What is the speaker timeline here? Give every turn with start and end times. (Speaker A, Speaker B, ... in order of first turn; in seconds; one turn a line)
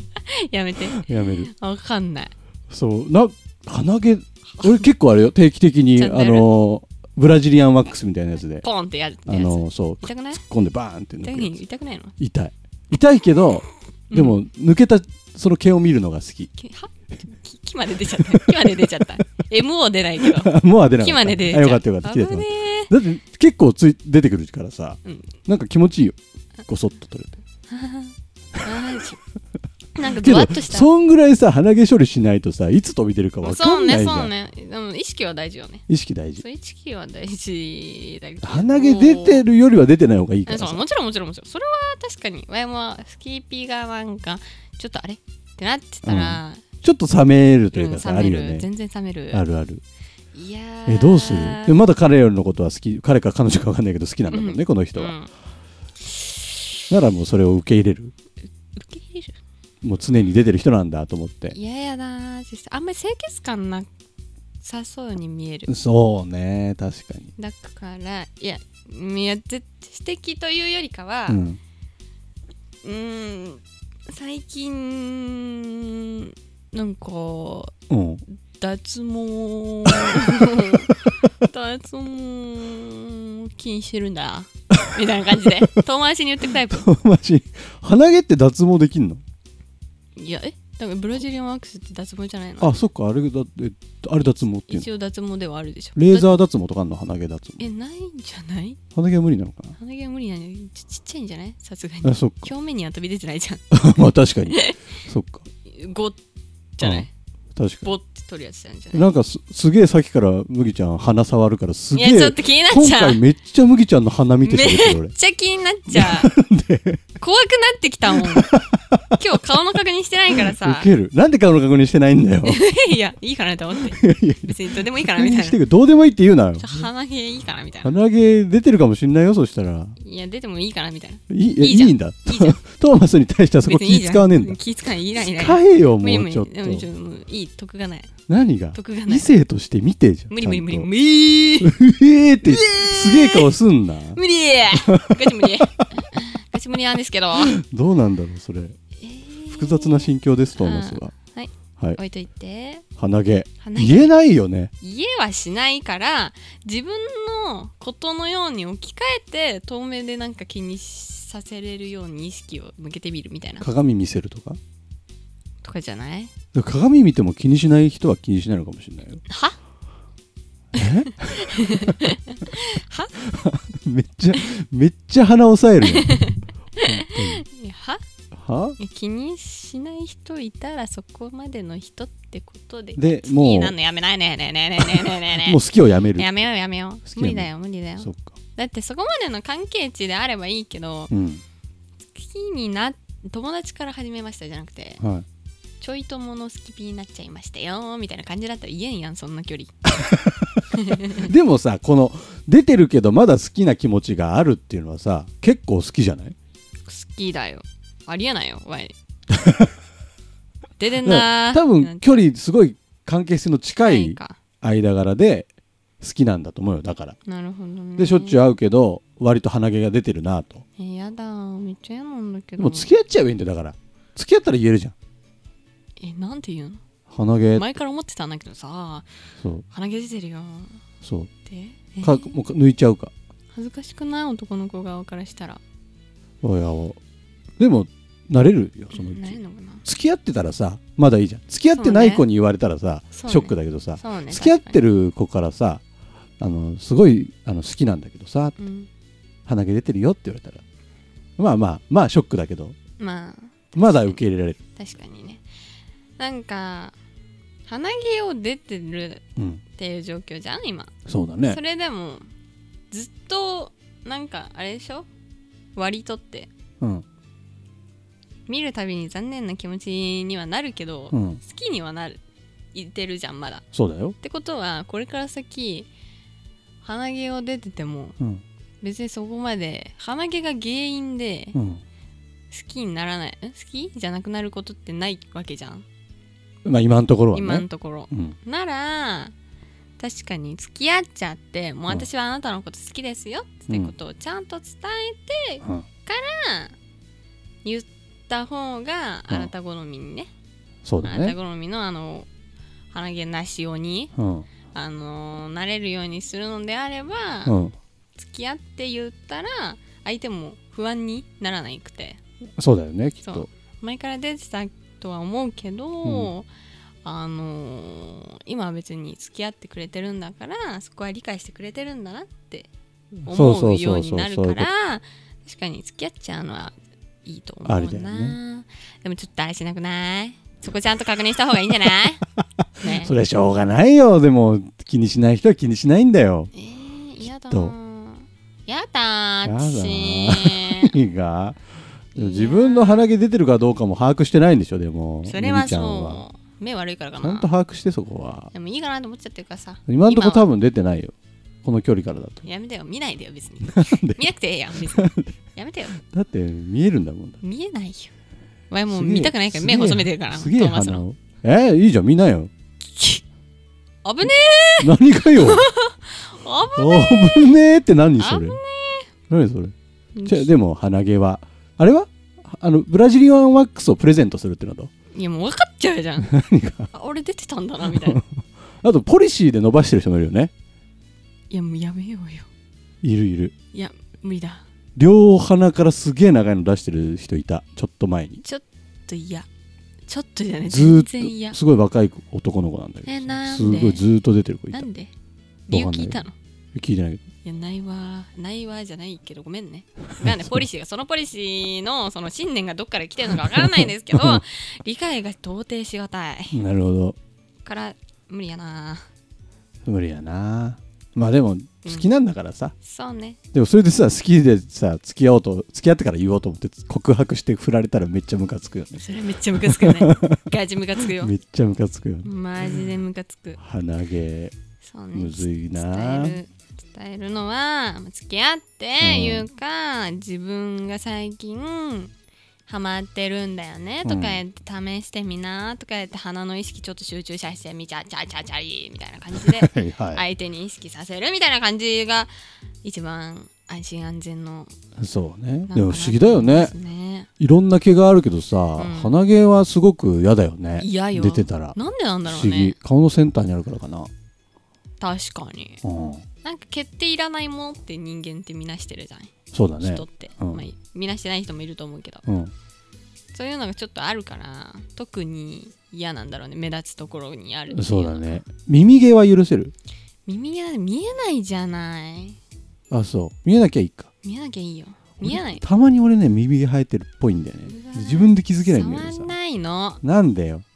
Speaker A: 0.3-2.3
Speaker B: 1.0-1.5
Speaker B: 2.7-8.7
Speaker A: 4.6-4.8
Speaker A: 6.0-6.5
Speaker A: 8.6-10.4
Speaker B: 9.3-11.6
Speaker A: 11.2-12.1
Speaker B: 12.2-16.5
Speaker A: 14.1-14.4
Speaker A: 16.6-22.9
Speaker B: 18.3-18.8
Speaker B: 20.2-27.4
Speaker A: 25.0-25.3
Speaker A: 27.7-29.2
Speaker A: 29.9-30.9
Speaker B: 30.1-34.3
Speaker A: 33.4-35.8
Speaker B: 35.9-36.4
Speaker A: 36.4-39.4
Speaker B: 38.4-40.8
Speaker A: 40.5-46.6
Speaker B: 46.0-48.7
Speaker A: 47.7-49.4
Speaker B: 49.3-49.8
Speaker A: 50.3-51.8
Speaker B: 50.9-55.1
Speaker A: 54.3-55.3
Speaker B: 56.9-58.1
Speaker A: 58.7-59.4
Speaker B: 59.8-61.6
Speaker A: 61.5-63.9
Speaker A: 64.6-65.7
Speaker B: 65.7-67.3
Speaker A: 67.4-71.4
Speaker B: 71.3-71.6
Speaker A: 72.8-77.7
Speaker B: 77.9-78.2
Speaker A: 78.6-86.8
Speaker B: 80.1-80.5
Speaker B: 86.7-89.2
Speaker A: 90.2-92.7
Speaker B: 92.6-94.9
Speaker A: 94.7-96.4
Speaker B: 96.0-97.7
Speaker A: 97.6-98.8
Speaker B: 98.9-99.8
Speaker A: 99.8-103.7
Speaker B: 102.0-102.5
Speaker B: 103.7-105.4
Speaker A: 104.5-104.8
Speaker A: 105.7-106.2
Speaker A: 106.8-107.1
Speaker B: 106.8-107.9
Speaker A: 107.8-109.1
Speaker B: 108.9-115.1
Speaker A: 111.9-113.2
Speaker A: 114.4-116.3
Speaker B: 115.9-117.0
Speaker A: 117.2-118.6
Speaker B: 118.2-118.6
Speaker A: 119.1-120.9
Speaker B: 120.6-122.6
Speaker A: 122.4-125.6
Speaker B: 123.8-126.9
Speaker A: 126.6-128.0
Speaker B: 127.8-130.0
Speaker A: 130.0-132.6
Speaker B: 131.3-134.6
Speaker A: 133.7-138.1
Speaker B: 135.2-136.9
Speaker B: 138.3-140.9
Speaker A: 138.7-139.3
Speaker A: 140.3-141.8
Speaker B: 141.6-145.9
Speaker A: 142.4-143.5
Speaker A: 144.1-147.6
Speaker B: 147.3-148.8
Speaker A: 149.0-152.8
Speaker B: 149.5-151.1
Speaker B: 153.0-154.7
Speaker A: 153.6-154.1
Speaker A: 154.8-163.7
Speaker B: 163.6-164.6
Speaker A: 165.6-166.3
Speaker B: 166.5-169.2
Speaker A: 169.3-169.6
Speaker B: 170.7-172.0
Speaker A: 170.8-173.1
Speaker B: 173.2-177.4
Speaker A: 175.8-178.0
Speaker B: 178.3-178.8
Speaker A: 178.8-185.6
Speaker B: 182.9-183.7
Speaker B: 184.8-186.3
Speaker A: 186.1-191.1
Speaker B: 187.1-187.5
Speaker B: 188.0-188.4
Speaker B: 191.1-191.4
Speaker A: 192.1-195.0
Speaker B: 195.0-195.2
Speaker A: 195.8-199.7
Speaker B: 199.8-206.3
Speaker A: 200.7-201.3
Speaker A: 206.9-208.9
Speaker B: 209.3-209.7
Speaker A: 210.8-212.2
Speaker B: 211.0-215.5
Speaker A: 213.8-214.4
Speaker B: 216.0-217.2
Speaker A: 217.2-218.5
Speaker B: 218.0-220.6
Speaker A: 220.8-222.9
Speaker B: 222.6-224.9
Speaker A: 226.0-226.8
Speaker B: 227.1-227.7
Speaker A: 227.6-229.1
Speaker B: 229.4-229.6
Speaker A: 229.7-230.8
Speaker B: 231.0-231.3
Speaker A: 231.4-232.3
Speaker B: 232.0-233.1
Speaker A: 233.5-235.6
Speaker B: 236.4-237.0
Speaker B: 237.6-245.8
Speaker A: 238.9-239.8
Speaker A: 241.8-242.2
Speaker A: 243.1-244.8
Speaker B: 246.4-248.6
Speaker A: 248.6-248.9
Speaker B: 249.4-250.6
Speaker B: 251.4-252.8
Speaker A: 253.0-254.2
Speaker B: 253.7-254.6
Speaker A: 254.8-255.4
Speaker A: 256.2-256.9
Speaker A: 257.7-259.2
Speaker B: 259.4-259.6
Speaker A: 259.8-260.9
Speaker B: 261.1-261.6
Speaker A: 261.4-262.2
Speaker A: 262.9-265.1
Speaker A: 265.8-266.5
Speaker A: 268.5-272.2
Speaker B: 271.1-271.4
Speaker A: 272.7-273.7
Speaker B: 273.7-274.1
Speaker A: 274.2-275.9
Speaker A: 276.8-278.1
Speaker A: 278.8-281.6
Speaker B: 281.5-281.8
Speaker A: 282.5-285.8
Speaker B: 286.6-288.4
Speaker A: 287.3-289.3
Speaker A: 290.0-296.8
Speaker B: 293.7-293.9
Speaker A: 297.6-300.3
Speaker B: 300.8-301.4
Speaker A: 301.0-302.3
Speaker A: 302.9-304.1
Speaker B: 304.1-304.5
Speaker A: 304.7-307.6
Speaker B: 307.4-307.7
Speaker A: 308.2-312.2
Speaker B: 312.6-313.5
Speaker A: 313.2-316.5
Speaker B: 316.0-316.3
Speaker A: 317.0-322.7
Speaker B: 323.2-324.7
Speaker A: 323.2-333.1
Speaker B: 327.6-328.4
Speaker B: 332.8-336.5
Speaker A: 336.5-340.9
Speaker B: 339.4-341.6
Speaker A: 342.1-343.1
Speaker B: 342.1-346.2
Speaker A: 345.2-347.5
Speaker B: 347.2-348.5
Speaker A: 348.5-350.5
Speaker B: 349.9-352.4
Speaker A: 352.4-356.0
Speaker B: 353.6-354.2
Speaker B: 354.8-355.4
Speaker B: 356.0-357.4
Speaker A: 357.4-358.1
Speaker A: 358.7-361.0
Speaker B: 358.9-362.5
Speaker A: 362.9-363.2
Speaker A: 364.0-367.5
Speaker B: 364.8-365.7
Speaker B: 366.8-368.6
Speaker A: 368.2-369.1
Speaker B: 369.3-369.7
Speaker A: 370.1-370.5
Speaker B: 370.2-374.9
Speaker A: 375.1-376.3
Speaker B: 376.2-376.9
Speaker A: 376.9-378.2
Speaker B: 377.9-378.2
Speaker B: 378.8-380.5
Speaker A: 381.5-382.5
Speaker B: 383.0-383.5
Speaker A: 383.7-384.6
Speaker B: 384.9-388.4
Speaker A: 388.4-389.5
Speaker A: 390.1-391.6
Speaker B: 390.7-394.9
Speaker A: 393.0-394.1
Speaker A: 394.7-395.1
Speaker A: 395.7-396.3
Speaker B: 395.7-396.2
Speaker B: 396.7-397.2
Speaker A: 397.4-406.6
Speaker B: 400.2-400.6
Speaker B: 403.4-404.4
Speaker B: 406.5-407.1
Speaker A: 407.6-409.1
Speaker B: 409.8-412.7
Speaker A: 412.8-413.4
Speaker B: 413.5-419.0
Speaker A: 418.9-421.3
Speaker B: 419.6-420.4
Speaker B: 421.0-422.8
Speaker A: 422.2-423.6
Speaker B: 423.6-424.5
Speaker A: 424.8-432.1
Speaker B: 425.1-426.4
Speaker B: 429.0-429.5
Speaker A: 432.7-442.3
Speaker B: 434.0-434.4
Speaker B: 439.3-440.2
Speaker A: 442.8-444.7
Speaker B: 445.0-446.7
Speaker A: 445.7-447.3
Speaker B: 447.4-454.1
Speaker A: 448.8-449.2
Speaker A: 450.8-452.8
Speaker A: 455.0-455.8
Speaker B: 455.8-456.2
Speaker A: 456.4-462.2
Speaker B: 459.5-460.6
Speaker B: 462.2-462.5
Speaker A: 463.3-468.4
Speaker B: 467.7-469.7
Speaker A: 470.3-472.4
Speaker B: 472.9-474.1
Speaker A: 474.2-475.6
Speaker B: 475.2-479.3
Speaker A: 477.7-480.0
Speaker B: 480.0-480.6